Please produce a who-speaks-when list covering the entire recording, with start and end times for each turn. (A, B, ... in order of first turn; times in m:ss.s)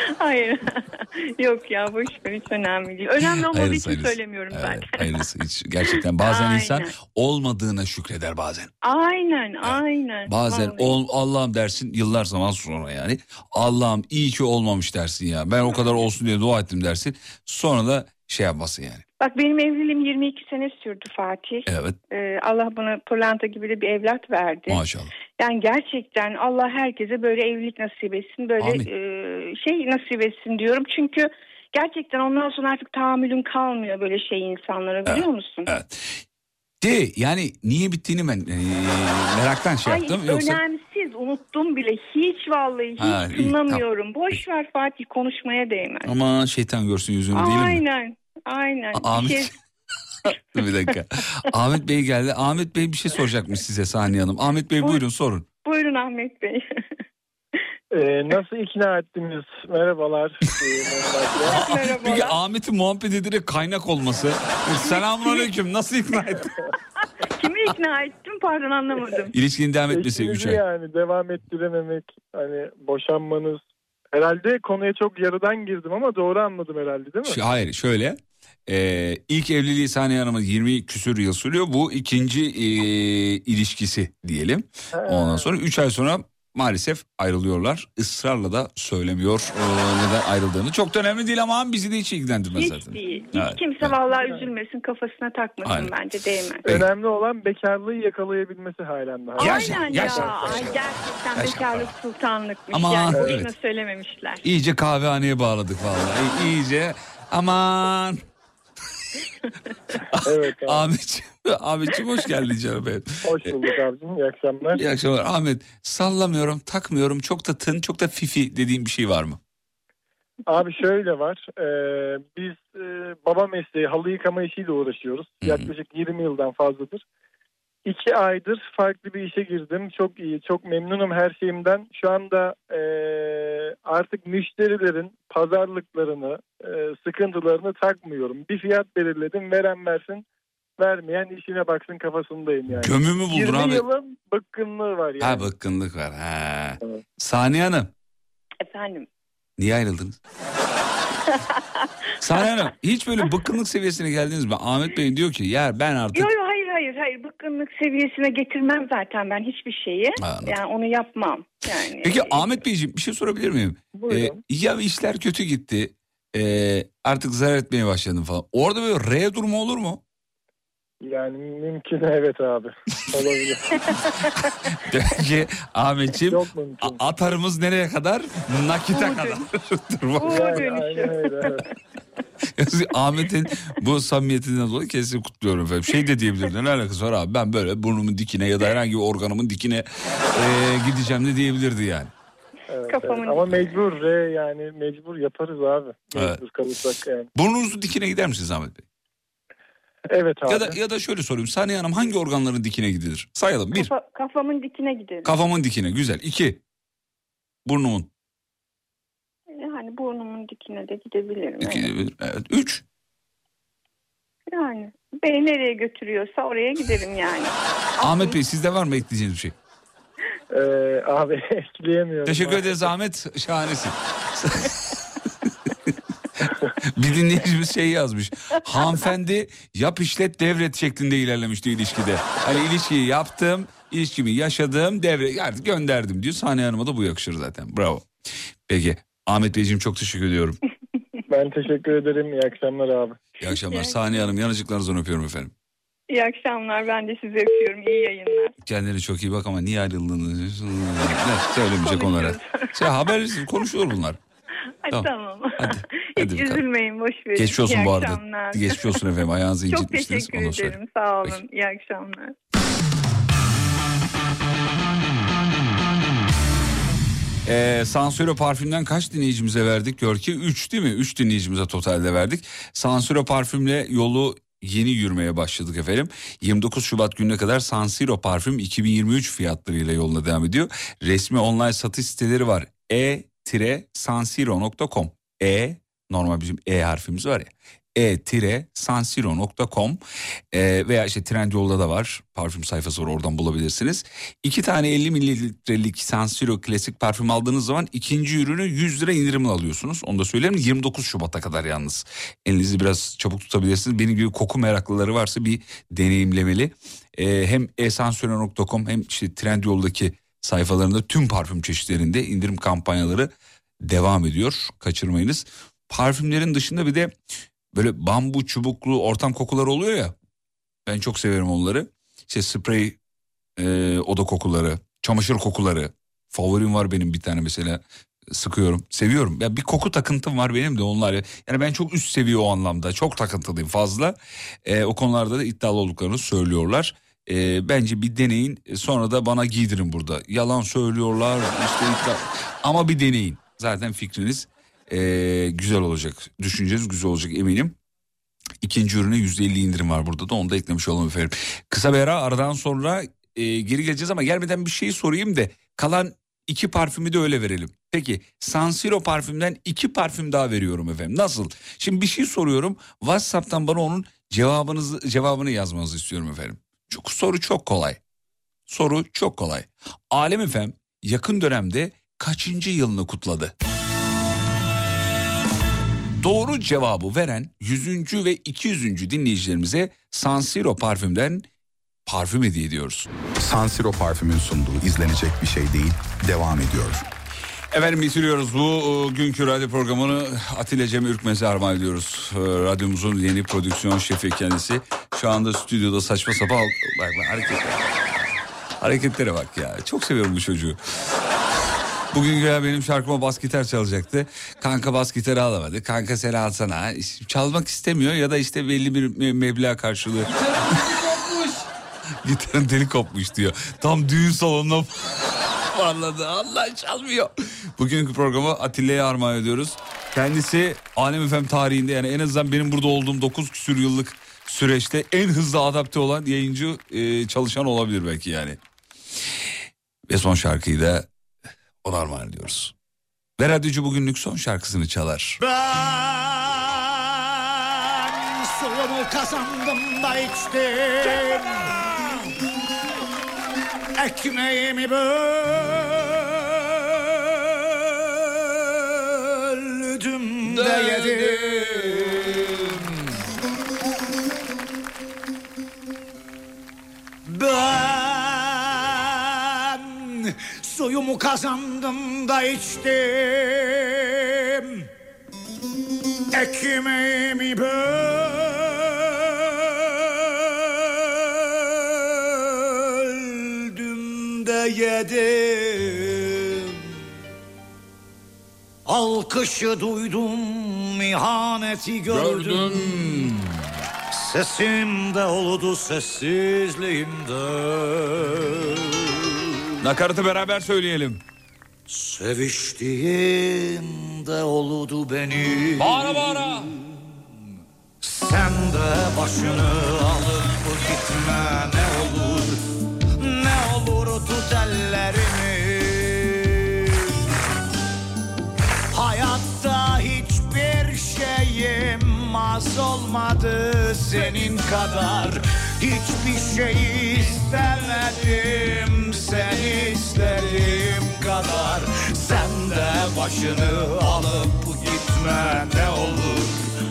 0:00.2-0:05.2 A
0:03.2-0:08.7 B
0:06.2-0:06.9 A
0:08.8-0:11.0 A
0:09.6-0:19.0 B
0:19.2-0:24.8 A
0:21.7-0:21.9 B
0:24.7-0:25.1 B
0:25.4-0:35.7 A
0:28.6-0:28.9 B
0:35.0-0:36.2 B
0:36.8-0:40.6 B
0:39.8-0:46.1 A
0:43.0-0:43.8 B
0:46.0-0:47.8 B
0:47.3-0:49.5 A
0:48.9-0:49.5 B
0:50.3-0:55.4 B
0:55.6-0:56.6 A
0:57.9-1:01.7 C
1:01.4-1:02.4 A
1:01.5-1:06.5 B
1:04.8-1:05.5 A
1:07.4-1:09.3 A
1:09.3-1:10.6 B
1:09.9-1:13.6 C
1:14.1-1:17.4 C
1:17.2-1:33.9 B
1:24.9-1:25.5 C
1:32.5-1:36.6 A
1:35.6-1:35.9 B
1:36.6-1:40.8 C
1:39.4-1:41.9 B
1:39.4-1:44.4 A
1:42.7-1:43.5 B
1:44.4-1:48.2 B
1:50.0-1:53.5 B
1:50.2-1:50.9 C
1:53.2-1:54.8 C
1:54.7-1:59.4 B
2:00.5-2:07.0 C
2:05.4-2:05.7 B
2:07.8-2:20.2 C
2:20.8-2:25.4 C
2:22.7-2:23.8 B
2:25.2-2:27.9 B
2:28.6-2:29.1 A
2:29.6-2:30.2 B
2:32.2-2:36.3 B
2:36.2-2:42.4 A
2:40.2-2:40.6 B
2:42.0-2:50.0 B
2:43.9-2:44.4 C
2:51.0-2:53.8 C
2:54.2-2:54.5 A
2:54.3-3:00.7 B
2:56.3-2:57.0 C
2:58.9-2:59.4 A
3:00.2-3:01.6 A
3:00.2-3:01.6 C
3:02.6-3:12.1 B
3:12.7-3:17.3 C
3:12.9-3:13.8 A
3:17.3-3:18.8 B
3:20.1-3:20.8 C
3:20.5-3:23.9 B
3:23.7-3:25.3 A
3:25.2-3:26.6 B
3:27.6-3:28.1 B
3:29.6-3:31.9 A
3:31.6-3:32.8 B
3:34.5-3:38.4 A
3:38.0-3:39.5 B
3:40.5-3:42.9 C
3:42.2-3:45.0 B
3:46.4-3:58.1 B
3:58.7-4:00.6 B
4:01.3-4:03.2 C
4:03.4-4:05.5 B
4:03.4-4:04.0 A
4:06.1-4:08.5 A
4:08.6-4:14.2 B
4:11.8-4:12.9 A
4:14.8-4:19.0 A
4:14.9-4:16.6 B
4:17.4-4:21.4 B
4:19.7-4:22.3 A
4:27.4-4:50.0 B
4:50.5-5:13.3 B
5:13.8-5:17.1 B
5:17.7-5:20.1 B
5:20.8-5:23.0 B
5:23.6-5:27.8 B
5:28.3-5:47.8 B
5:48.6-6:08.0 B
6:08.7-6:13.5 B
6:16.2-6:21.4 B
6:22.0-6:23.1 B
6:23.4-6:27.0 D
6:27.7-6:38.2 B
6:38.8-6:40.8 B
6:42.1-6:50.5 B
6:52.2-6:55.2 B
6:55.7-7:08.6 B
7:10.1-7:11.1 B
7:11.8-7:12.7 B
7:13.4-7:15.4 B
7:15.4-7:16.9 E
7:18.4-7:22.1 E
7:24.0-7:26.5 E
7:29.4-7:32.7 E
7:30.4-7:32.0 B
7:37.2-7:44.8 E
7:46.3-7:49.2 E
7:52.7-7:56.7 E
7:58.8-8:02.8 E
8:02.1-8:03.4 B
8:04.1-8:08.8 E
8:09.8-8:11.2 B
8:11.9-8:16.5 E
8:15.8-8:16.7 B
8:18.0-8:22.6 E
8:23.2-8:26.9 E
8:28.9-8:46.7 E